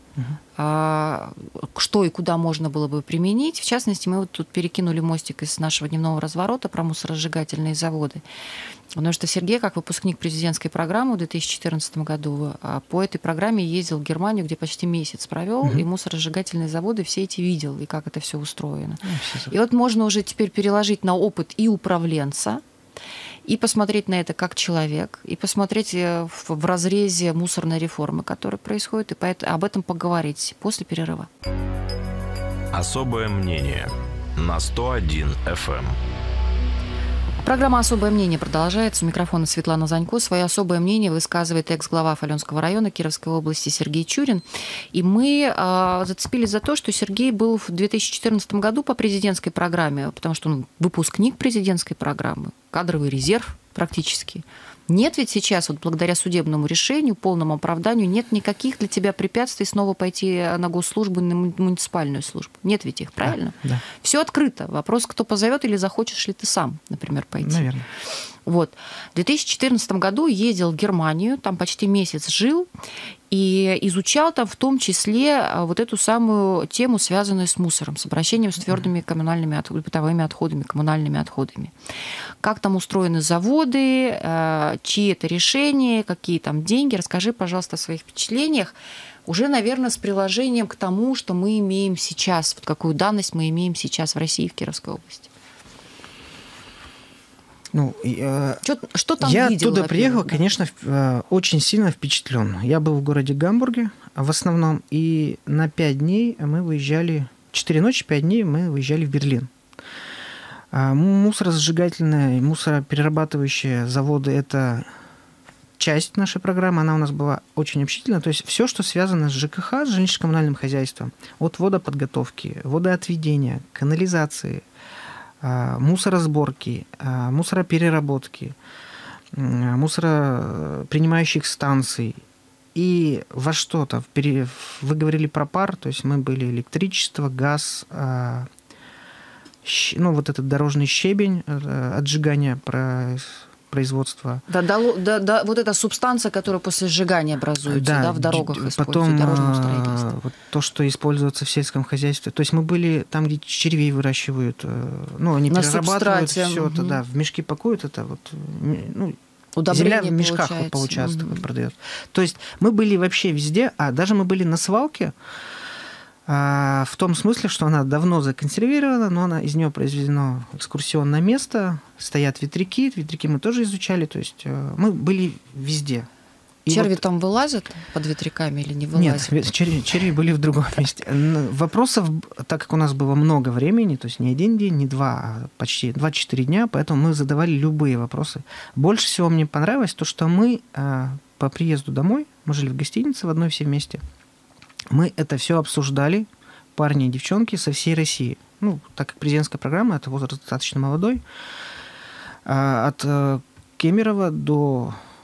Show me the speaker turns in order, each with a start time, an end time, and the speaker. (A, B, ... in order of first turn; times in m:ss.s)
0:00.6-0:08.2 A
0:08.9-0:22.6 A
0:19.0-0:19.5 B
0:23.4-0:31.3 A
0:32.7-0:36.0 C
0:37.4-1:07.6 A
1:03.2-1:03.8 B
1:07.4-1:07.9 B
1:08.4-1:12.7 A
1:13.3-1:21.7 A
1:22.4-1:35.3 A
1:37.7-1:38.6 B
1:38.6-1:40.4 A
1:39.2-1:49.5 B
1:50.7-1:54.9 B
1:55.8-2:04.6 B
2:05.4-2:08.6 B
2:09.3-2:12.2 B
2:12.7-2:18.5 B
2:19.6-2:24.4 B
2:24.5-2:30.1 A
2:27.7-2:39.2 B
2:35.5-2:37.0 A
2:39.6-2:41.4 A
2:39.7-2:45.1 B
2:46.2-2:56.1 B
2:56.6-2:57.0 B
2:56.7-2:59.4 A
2:59.0-3:14.0 B
3:14.9-3:21.2 B
3:22.4-3:25.0 B